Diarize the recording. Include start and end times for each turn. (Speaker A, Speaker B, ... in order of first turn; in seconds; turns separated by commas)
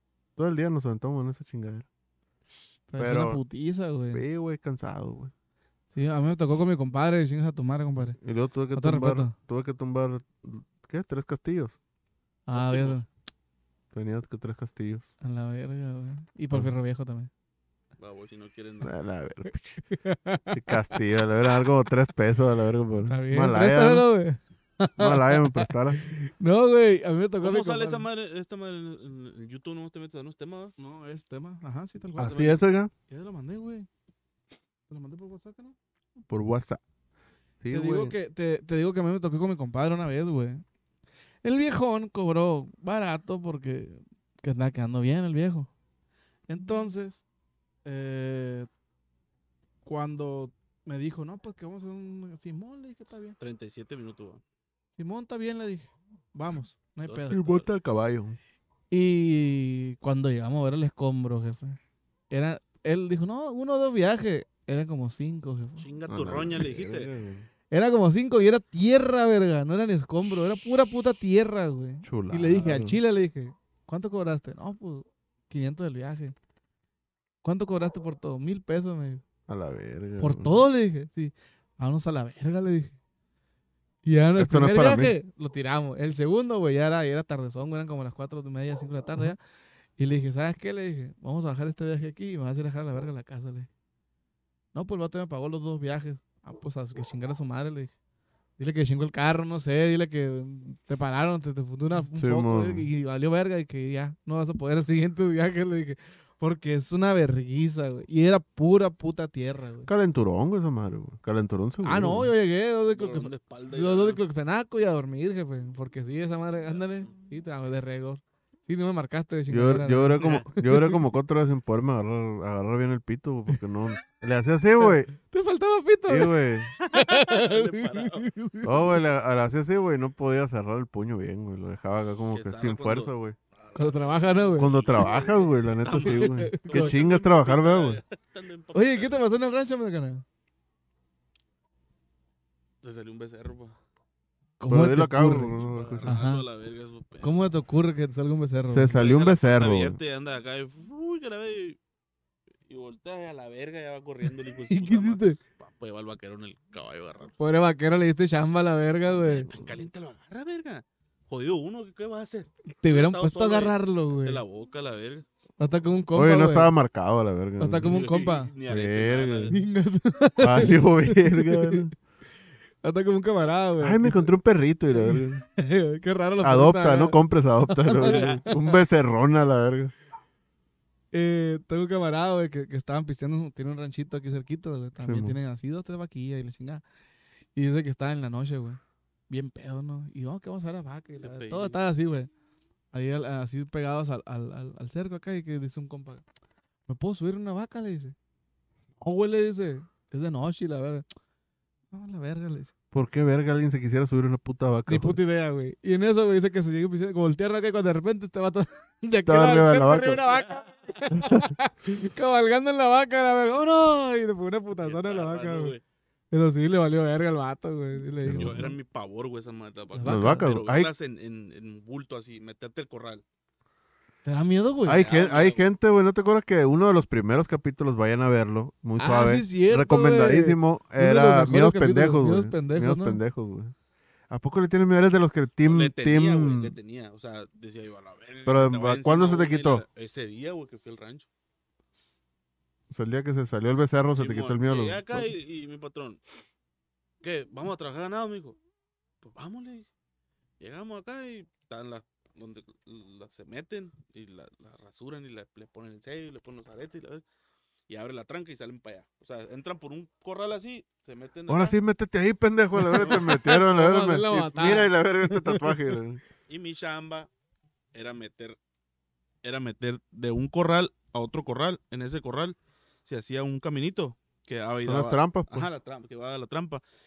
Speaker A: 0.3-1.9, Speaker B: 2.9-4.2, Speaker A: 3.0-3.4, Speaker A: 4.1-5.3, Speaker B: 5.9-8.2, Speaker A: 8.2-11.8, Speaker B: 8.7-9.3, Speaker B: 12.5-13.1, Speaker C: 12.5-12.9, Speaker A: 13.9-15.1, Speaker B: 15.2-17.3, Speaker C: 18.0-19.0, Speaker A: 18.8-19.8, Speaker B: 19.9-21.0, Speaker A: 20.5-24.1, Speaker B: 23.0-28.1, Speaker A: 25.0-26.0, Speaker C: 27.4-30.7, Speaker B: 30.8-32.6, Speaker C: 32.2-32.6, Speaker A: 32.2-32.9, Speaker B: 33.1-33.9, Speaker B: 34.9-35.8, Speaker A: 36.3-36.8, Speaker A: 37.6-38.1, Speaker B: 37.7-40.6, Speaker B: 41.4-45.7, Speaker B: 46.5-47.2, Speaker B: 47.8-48.7, Speaker B: 49.8-53.4, Speaker C: 53.4-54.4, Speaker B: 55.0-57.6, Speaker C: 57.0-57.5, Speaker A: 57.3-58.4, Speaker B: 58.9-61.8, Speaker B: 62.3-65.9, Speaker C: 65.8-67.1, Speaker A: 66.1-67.5, Speaker B: 67.7-76.3, Speaker A: 72.0-73.0, Speaker B: 77.4-79.2, Speaker A: 79.5-80.6, Speaker B: 80.2-83.0, Speaker B: 84.0-89.4, Speaker A: 84.4-85.2, Speaker B: 90.0-93.7, Speaker B: 94.7-97.9, Speaker B: 98.6-109.9, Speaker A: 102.1-102.9, Speaker A: 109.8-112.3, Speaker B: 111.8-121.0, Speaker C: 112.9-114.2, Speaker C: 116.7-117.1, Speaker A: 119.5-125.1, Speaker B: 124.8-129.0, Speaker A: 126.1-126.7, Speaker C: 126.9-128.3, Speaker A: 128.6-133.3, Speaker C: 132.3-139.2, Speaker B: 133.7-134.7, Speaker A: 134.6-138.0, Speaker B: 136.0-137.0, Speaker B: 138.7-140.2, Speaker C: 142.8-143.8, Speaker B: 144.6-146.4, Speaker A: 144.7-146.1, Speaker C: 145.5-147.5, Speaker B: 147.2-149.1, Speaker A: 148.7-150.0, Speaker C: 148.9-151.8, Speaker C: 152.7-157.3, Speaker B: 154.2-155.4, Speaker B: 157.4-159.5, Speaker A: 159.2-159.7, Speaker C: 159.3-165.2, Speaker B: 162.7-164.4, Speaker B: 165.6-166.7, Speaker A: 166.1-167.9, Speaker B: 167.6-168.5, Speaker C: 167.8-169.6, Speaker A: 168.7-169.5, Speaker B: 169.5-171.9, Speaker A: 170.4-171.9, Speaker B: 172.8-174.3, Speaker A: 173.8-175.4, Speaker B: 174.9-178.8, Speaker A: 176.4-179.9, Speaker C: 178.0-178.4, Speaker B: 181.1-186.8, Speaker A: 185.0-185.3, Speaker B: 187.5-192.3, Speaker C: 191.2-191.8, Speaker B: 192.9-196.2, Speaker B: 196.9-198.1, Speaker B: 199.0-201.1, Speaker B: 201.9-202.7, Speaker A: 202.9-205.2, Speaker B: 204.9-215.7, Speaker A: 209.2-210.2, Speaker C: 210.3-211.1, Speaker A: 211.1-211.5, Speaker C: 214.8-215.8, Speaker B: 216.3-218.7, Speaker A: 218.2-218.7, Speaker C: 218.2-223.2, Speaker B: 219.9-220.5, Speaker A: 220.0-220.9, Speaker B: 224.2-225.0, Speaker A: 224.8-233.7, Speaker C: 224.9-225.6, Speaker B: 229.0-233.2, Speaker A: 234.3-236.8, Speaker C: 235.6-241.3, Speaker A: 238.4-239.8, Speaker A: 242.9-245.3, Speaker C: 244.2-246.2, Speaker C: 247.2-248.6, Speaker C: 249.2-249.9, Speaker C: 250.6-257.2, Speaker C: 257.9-261.8, Speaker A: 261.5-266.2, Speaker B: 262.7-265.7, Speaker C: 262.9-263.2, Speaker C: 266.5-267.3, Speaker C: 267.9-268.6, Speaker C: 269.4-276.8, Speaker A: 274.8-275.7